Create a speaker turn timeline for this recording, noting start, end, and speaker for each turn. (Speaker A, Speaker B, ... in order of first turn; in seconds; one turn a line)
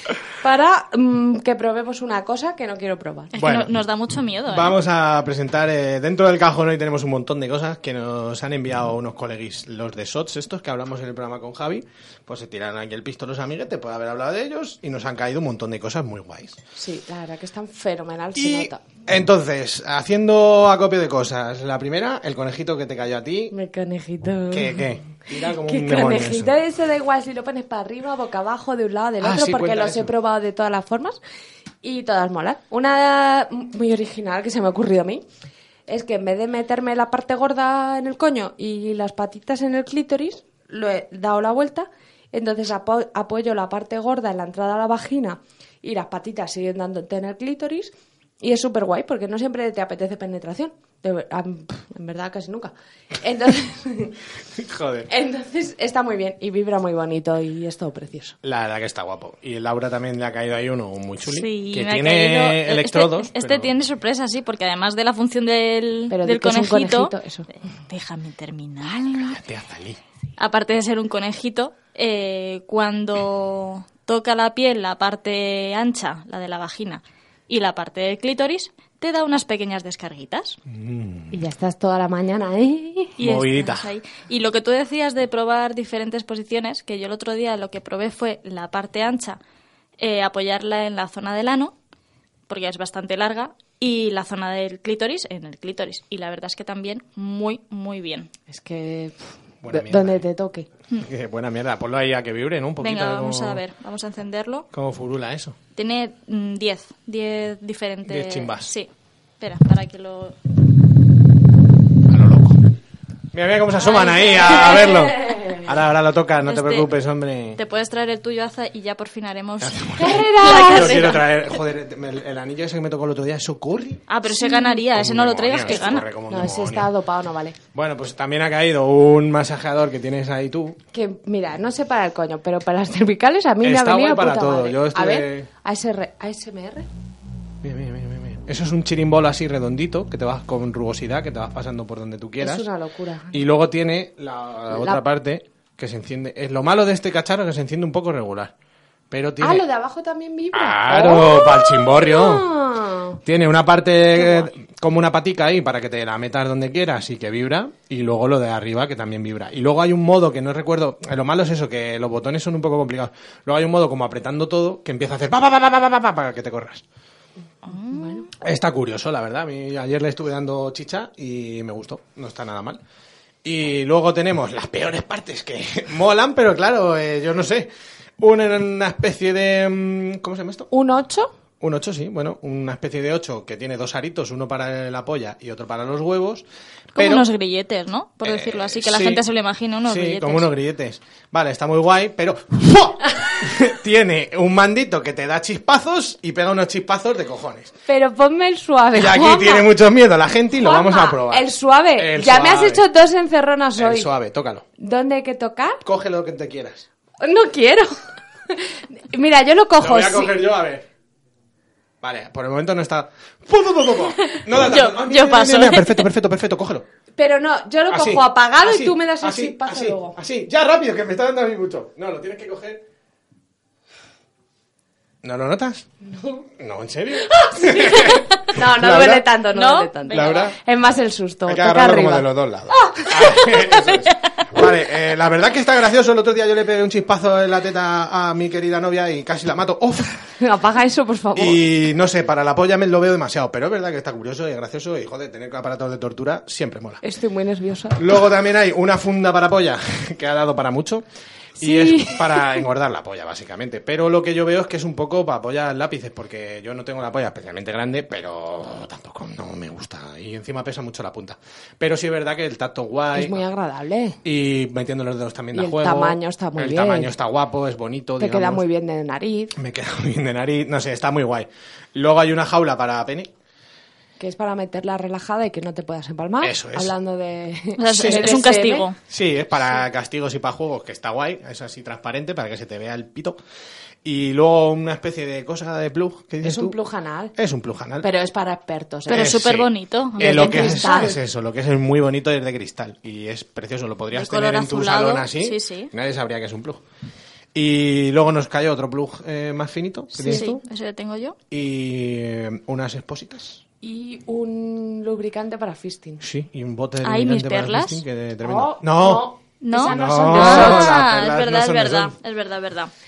Speaker A: 0.4-3.3
Speaker B: 3.4-4.8
Speaker C: 3.4-3.7
Speaker C: 4.5-16.6
Speaker A: 16.8-18.8
Speaker C: 18.4-23.5
Speaker A: 23.5-24.8
Speaker C: 24.5-26.5
Speaker A: 25.6-31.2
Speaker C: 29.2-30.1
Speaker A: 31.8-35.2
Speaker A: 35.9-54.2
Speaker C: 54.5-55.1
Speaker A: 55.1-58.4
Speaker C: 58.4-63.7
Speaker B: 61.3-67.1
Speaker A: 66.1-67.5
Speaker B: 67.9-69.4
Speaker C: 69.2-70.0
Speaker B: 70.4-80.6
Speaker C: 80.7-81.4
Speaker A: 81.3-83.2
Speaker B: 83.2-89.4
Speaker C: 83.2-83.9
Speaker B: 90.0-91.7
Speaker B: 92.5-98.3
Speaker A: 98.5-99.2
Speaker C: 99.6-100.2
Speaker A: 99.7-100.7
Speaker C: 101.0-103.6
Speaker B: 102.8-104.7
Speaker C: 104.7-105.6
Speaker B: 105.8-108.9
Speaker C: 108.0-108.7
Speaker B: 109.4-110.4
Speaker C: 112.1-112.6
Speaker C: 113.3-117.6
Speaker B: 116.5-116.9
Speaker B: 117.6-121.2
Speaker C: 119.6-124.1
Speaker A: 120.0-121.2
Speaker B: 124.1-126.1
Speaker A: 124.4-124.8
Speaker C: 124.9-126.9
Speaker A: 125.7-127.6
Speaker C: 127.7-130.8
Speaker A: 130.9-136.9
Speaker C: 133.6-135.5
Speaker C: 137.6-142.7
Speaker A: 142.4-143.4
Speaker C: 143.3-148.5
Speaker A: 144.7-145.0
Speaker C: 149.1-149.7
Speaker A: 149.4-153.2
Speaker C: 150.5-152.5
Speaker C: 153.2-166.8
Speaker A: 154.2-154.5
Speaker B: 167.7-168.3
Speaker A: 167.9-168.2
Speaker C: 168.4-172.8
Speaker C: 173.4-180.7
Speaker A: 180.7-181.3
Speaker C: 181.6-186.4
Speaker B: 186.9-190.5
Speaker C: 187.0-187.3
Speaker C: 188.2-189.3
Speaker C: 189.8-197.8
Speaker A: 197.9-199.7
Speaker C: 198.9-202.8
Speaker A: 200.6-204.1
Speaker C: 203.8-204.7
Speaker A: 204.8-205.8
Speaker C: 205.8-206.9
Speaker A: 207.2-207.9
Speaker A: 208.5-210.4
Speaker C: 209.8-210.9
Speaker C: 212.0-216.8
Speaker B: 214.2-216.1
Speaker A: 217.2-220.2
Speaker C: 217.9-222.8
Speaker C: 225.2-225.9
Speaker A: 226.1-226.4
Speaker C: 226.6-229.4
Speaker A: 227.3-232.3
Speaker B: 229.6-230.5
Speaker C: 230.1-230.6
Speaker C: 231.5-240.2
Speaker A: 232.8-233.5
Speaker A: 240.4-241.6
Speaker C: 241.4-247.0
Speaker A: 247.0-248.1
Speaker C: 248.0-251.1
Speaker C: 251.6-263.4
Speaker A: 251.6-252.6
Speaker A: 263.1-264.2
Speaker C: 264.2-268.6
Speaker A: 265.5-267.1
Speaker A: 268.2-269.6
Speaker C: 269.6-273.3
Speaker A: 274.2-278.9
Speaker C: 276.4-276.9
Speaker B: 277.8-279.0
Speaker C: 277.9-278.3
Speaker C: 279.1-283.4
Speaker C: 284.0-286.8
Speaker A: 286.4-287.3
Speaker C: 287.4-288.1
Speaker A: 288.0-289.4
Speaker B: 289.1-291.1
Speaker C: 289.1-296.8
Speaker A: 290.2-291.2
Speaker B: 294.1-295.9
Speaker C: 297.5-300.6
Speaker B: 300.1-301.4
Speaker C: 301.5-303.6
Speaker A: 303.8-306.2
Speaker C: 306.2-309.3
Speaker B: 307.0-308.0
Speaker A: 308.4-310.9
Speaker B: 309.6-312.9
Speaker C: 309.8-312.1